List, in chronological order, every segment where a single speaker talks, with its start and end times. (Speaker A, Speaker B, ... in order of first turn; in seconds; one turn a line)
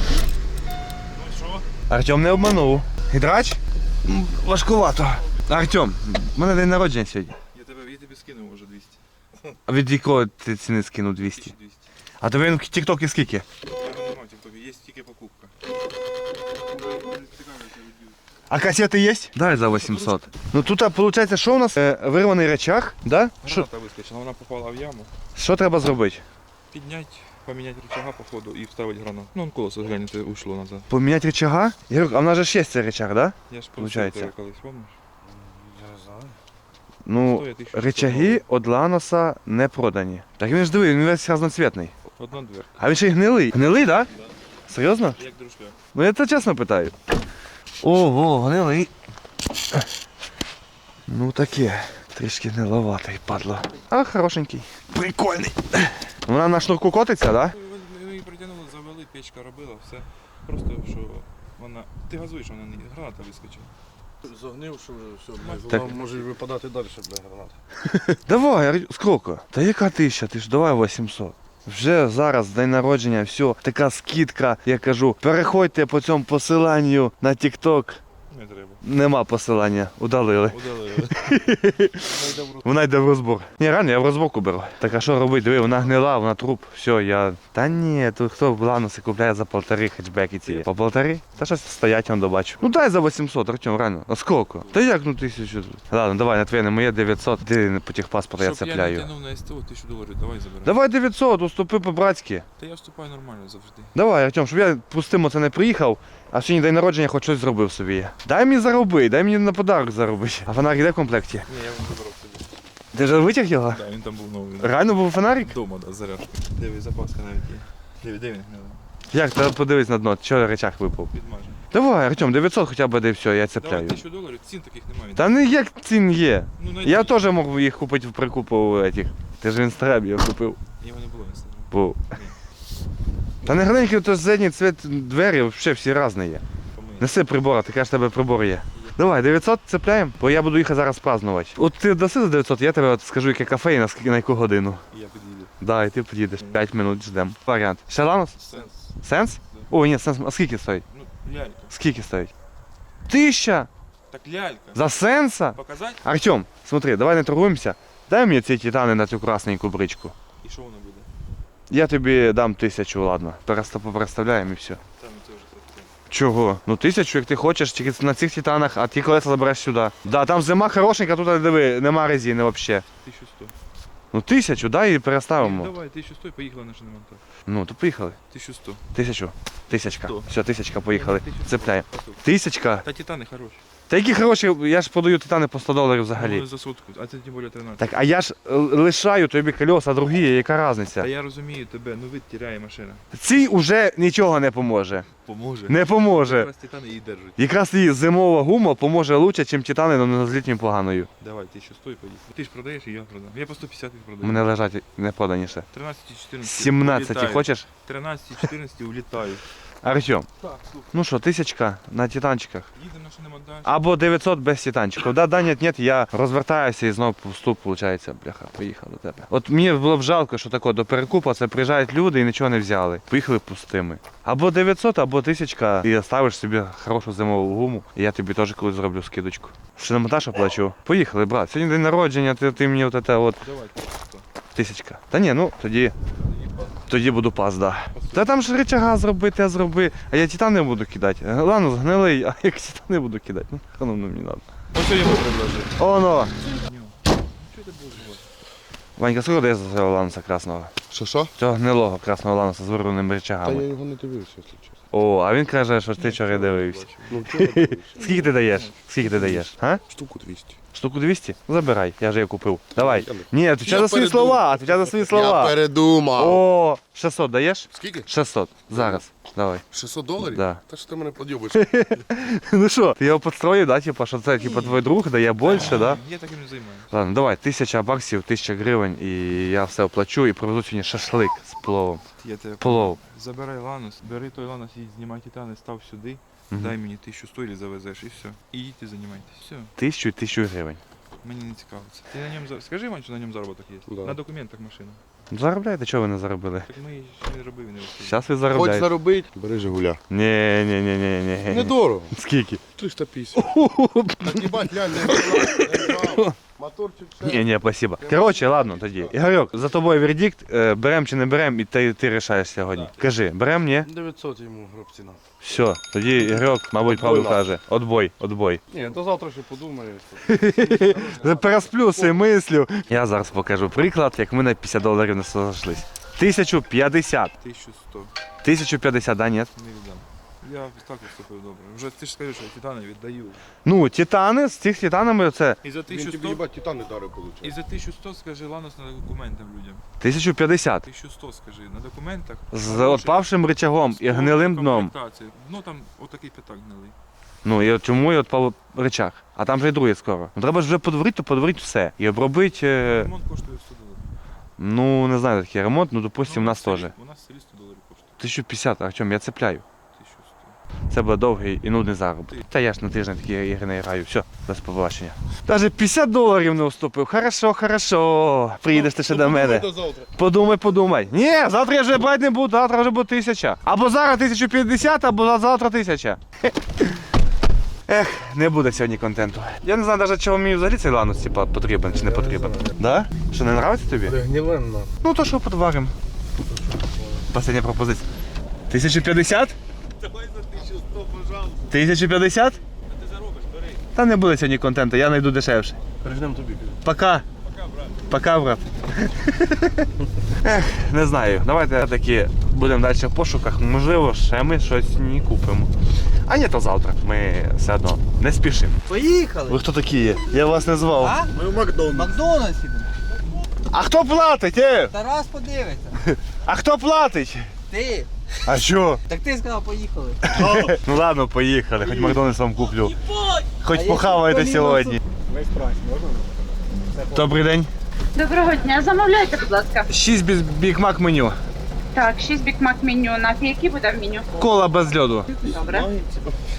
Speaker A: 1.1-1.6
Speaker B: 1.9-7.3
Speaker A: 7.5-9.0
Speaker B: 9.7-11.5
Speaker A: 11.2-11.8
Speaker B: 12.2-13.4
Speaker A: 13.8-15.5
Speaker A: 16.7-18.1
Speaker B: 18.5-23.7
Speaker A: 19.6-20.2
Speaker A: 23.4-25.1
Speaker B: 25.4-26.2
Speaker A: 26.7-30.9
Speaker B: 30.9-34.3
Speaker A: 33.5-35.0
Speaker C: 35.2-36.3
Speaker B: 37.0-41.9
Speaker A: 37.2-38.4
Speaker A: 42.2-42.7
Speaker B: 42.8-44.1
Speaker B: 44.7-45.2
Speaker A: 45.2-45.8
Speaker B: 45.9-46.9
Speaker B: 47.8-48.9
Speaker B: 51.1-57.5
Speaker A: 57.5-63.7
Speaker C: 64.2-67.5
Speaker A: 65.4-66.2
Speaker B: 67.9-78.0
Speaker A: 78.3-78.8
Speaker B: 78.8-82.0
Speaker A: 80.5-81.1
Speaker C: 82.0-82.7
Speaker B: 82.6-99.1
Speaker A: 94.6-94.9
Speaker A: 98.4-100.8
Speaker B: 100.6-102.5
Speaker A: 102.6-103.9
Speaker B: 103.9-111.5
Speaker A: 111.5-112.6
Speaker B: 112.9-113.8
Speaker A: 113.7-114.8
Speaker B: 114.6-115.5
Speaker A: 115.4-118.8
Speaker B: 119.1-121.1
Speaker A: 121.1-121.6
Speaker B: 121.7-124.0
Speaker A: 123.6-125.3
Speaker B: 125.2-130.6
Speaker A: 126.6-127.2
Speaker A: 130.8-132.4
Speaker B: 131.7-132.1
Speaker B: 133.4-136.4
Speaker A: 136.7-137.1
Speaker B: 137.0-144.8
Speaker A: 138.8-139.0
Speaker A: 144.9-145.5
Speaker B: 145.6-148.4
Speaker A: 146.4-146.6
Speaker A: 148.4-148.8
Speaker B: 149.0-150.8
Speaker A: 150.9-151.7
Speaker B: 151.7-152.3
Speaker B: 153.1-153.7
Speaker A: 154.1-155.0
Speaker B: 154.7-160.1
Speaker A: 155.5-156.0
Speaker A: 160.4-161.1
Speaker B: 161.7-164.8
Speaker A: 165.0-165.9
Speaker B: 166.1-172.8
Speaker A: 173.0-173.5
Speaker B: 174.1-175.7
Speaker A: 175.4-177.2
Speaker B: 177.5-178.2
Speaker A: 178.3-178.8
Speaker B: 178.9-182.8
Speaker A: 180.0-182.2
Speaker A: 182.8-183.6
Speaker B: 183.9-186.4
Speaker A: 186.1-187.9
Speaker B: 187.8-191.1
Speaker A: 191.0-193.0
Speaker B: 193.1-195.1
Speaker A: 195.2-197.4
Speaker B: 195.7-196.5
Speaker B: 197.4-201.1
Speaker A: 201.2-204.5
Speaker B: 204.2-205.7
Speaker A: 205.7-209.4
Speaker B: 206.4-207.7
Speaker B: 209.8-210.3
Speaker A: 210.4-210.8
Speaker B: 210.9-212.7
Speaker A: 212.8-213.7
Speaker B: 213.6-233.4
Speaker A: 233.4-234.2
Speaker B: 234.5-235.9
Speaker A: 236.0-236.8
Speaker B: 236.9-244.4
Speaker A: 237.9-238.3
Speaker A: 244.7-245.7
Speaker B: 245.8-246.3
Speaker A: 246.4-248.2
Speaker B: 249.0-250.7
Speaker C: 250.9-251.3
Speaker B: 251.4-253.7
Speaker C: 253.4-254.8
Speaker B: 254.9-259.8
Speaker A: 256.0-257.2
Speaker C: 257.1-258.3
Speaker A: 258.5-258.8
Speaker C: 259.1-260.6
Speaker B: 260.7-265.6
Speaker C: 262.8-266.4
Speaker B: 266.1-269.6
Speaker C: 267.7-268.1
Speaker C: 268.7-269.0
Speaker C: 269.7-271.7
Speaker B: 270.2-270.6
Speaker B: 271.5-276.0
Speaker A: 275.4-276.9
Speaker B: 276.9-282.0
Speaker A: 282.2-289.7
Speaker B: 282.6-283.0
Speaker B: 286.5-286.8
Speaker B: 289.8-290.8
Speaker A: 291.2-295.0
Speaker C: 293.9-294.2
Speaker B: 295.3-296.7
Speaker A: 296.7-298.2
Speaker B: 298.0-298.9
Speaker C: 298.5-300.0
Speaker B: 300.1-302.6
Speaker C: 301.5-302.1
Speaker C: 302.8-303.5
Speaker B: 303.3-306.4
Speaker C: 304.2-309.1
Speaker B: 307.2-313.9
Speaker C: 313.8-315.2
Speaker B: 315.4-318.6
Speaker C: 316.2-317.4
Speaker C: 318.7-322.2
Speaker B: 320.3-327.3
Speaker A: 327.4-328.1
Speaker B: 328.4-329.5
Speaker A: 329.5-333.4
Speaker B: 333.6-335.6
Speaker A: 335.6-336.4
Speaker C: 335.9-337.6
Speaker A: 337.4-339.8
Speaker B: 340.0-340.9
Speaker A: 340.9-343.2
Speaker B: 342.5-344.9
Speaker A: 343.9-346.9
Speaker B: 347.4-353.1
Speaker A: 352.9-354.0
Speaker B: 354.6-356.9
Speaker A: 356.2-358.1
Speaker B: 358.2-359.6
Speaker A: 359.9-360.6
Speaker B: 360.9-377.0
Speaker C: 368.7-370.1
Speaker B: 377.9-384.2
Speaker C: 381.9-382.8
Speaker C: 384.0-384.9
Speaker B: 385.0-385.9
Speaker C: 386.5-387.2
Speaker B: 387.3-388.0
Speaker B: 388.7-389.5
Speaker A: 390.0-391.6
Speaker B: 391.7-392.6
Speaker A: 392.9-393.8
Speaker B: 393.9-395.8
Speaker C: 396.0-396.8
Speaker B: 396.8-397.2
Speaker A: 397.4-398.0
Speaker B: 398.1-399.9
Speaker B: 400.4-405.7
Speaker B: 406.2-408.8
Speaker D: 408.9-409.6
Speaker B: 409.5-411.1
Speaker D: 411.0-411.3
Speaker C: 411.3-412.0
Speaker D: 411.9-412.9
Speaker B: 413.7-414.9
Speaker D: 414.9-416.0
Speaker B: 416.4-417.5
Speaker D: 417.7-418.1
Speaker B: 418.4-419.0
Speaker D: 419.1-420.4
Speaker B: 420.2-422.9
Speaker E: 420.4-420.8
Speaker D: 421.9-422.2
Speaker D: 422.8-424.3
Speaker B: 423.6-425.0
Speaker E: 424.2-427.3
Speaker B: 427.1-427.7
Speaker F: 428.1-429.9
Speaker B: 429.9-431.4
Speaker F: 431.9-434.4
Speaker B: 434.4-435.3
Speaker F: 435.3-435.9